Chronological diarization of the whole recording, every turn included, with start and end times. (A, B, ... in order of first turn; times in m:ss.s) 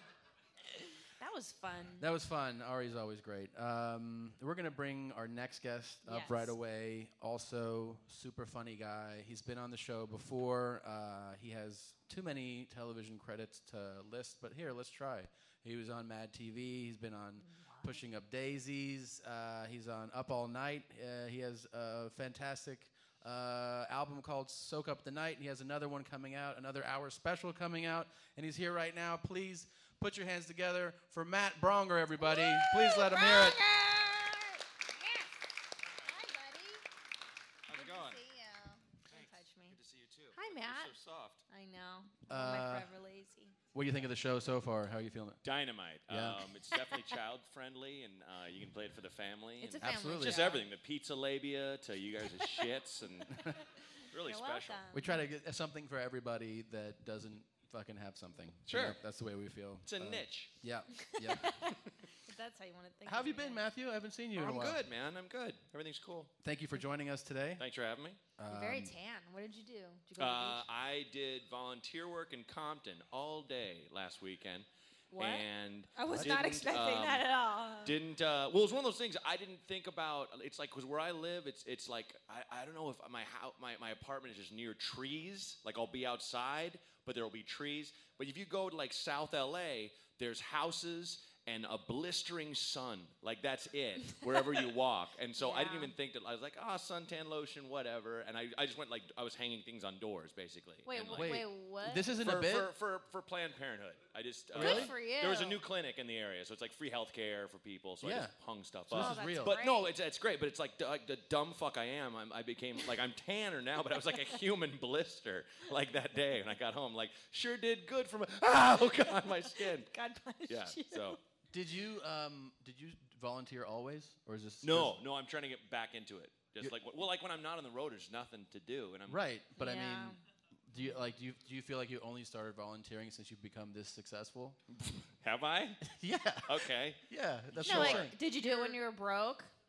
0:01.2-0:02.1 A
0:02.0-0:33.6 B
0:06.0-0:06.5 A
0:17.4-0:18.0 A
0:32.2-0:35.3 A
0:36.1-0:36.8 A
0:37.7-0:38.2 C
0:37.7-0:39.8 A
0:39.1-0:41.4 C
0:40.3-0:40.9 A
0:41.5-0:43.5 A
0:42.3-0:42.9 B
0:43.7-0:45.4 B
0:45.4-0:53.3 C
0:46.1-0:46.5 B
0:49.6-0:50.7 A
0:49.8-0:50.5 B
0:54.1-0:54.9 C
0:54.2-0:55.2 A
0:54.9-1:01.6 B
0:58.7-0:59.0 C
0:59.8-1:00.5 C
1:01.2-1:03.6 A
1:03.0-1:04.8 B
1:04.4-1:06.3 C
1:06.4-1:07.6 B
1:07.6-1:08.3 C
1:08.4-1:08.9 B
1:08.5-1:10.7 A
1:10.2-1:17.3 C
1:15.1-1:18.0 A
1:16.1-1:16.5 B
1:17.8-1:41.5 C
1:34.0-1:34.6 A
1:35.4-1:35.9 A
1:40.8-1:42.2 A
1:41.1-1:42.7 B
1:42.2-1:59.9 C
1:44.5-1:45.6 A
1:44.5-1:44.9 B
1:48.0-1:48.3 B
1:48.9-1:49.6 B
1:48.9-1:50.0 A
1:59.7-2:01.2 A
2:00.5-2:01.2 C
2:01.5-2:05.0 B
2:04.6-2:09.2 C
2:09.1-2:14.6 B
2:09.6-2:10.2 A
2:15.2-2:15.8 C
2:15.8-2:18.2 B
2:16.4-2:17.0 C
2:17.5-2:18.7 C
2:17.6-2:19.5 A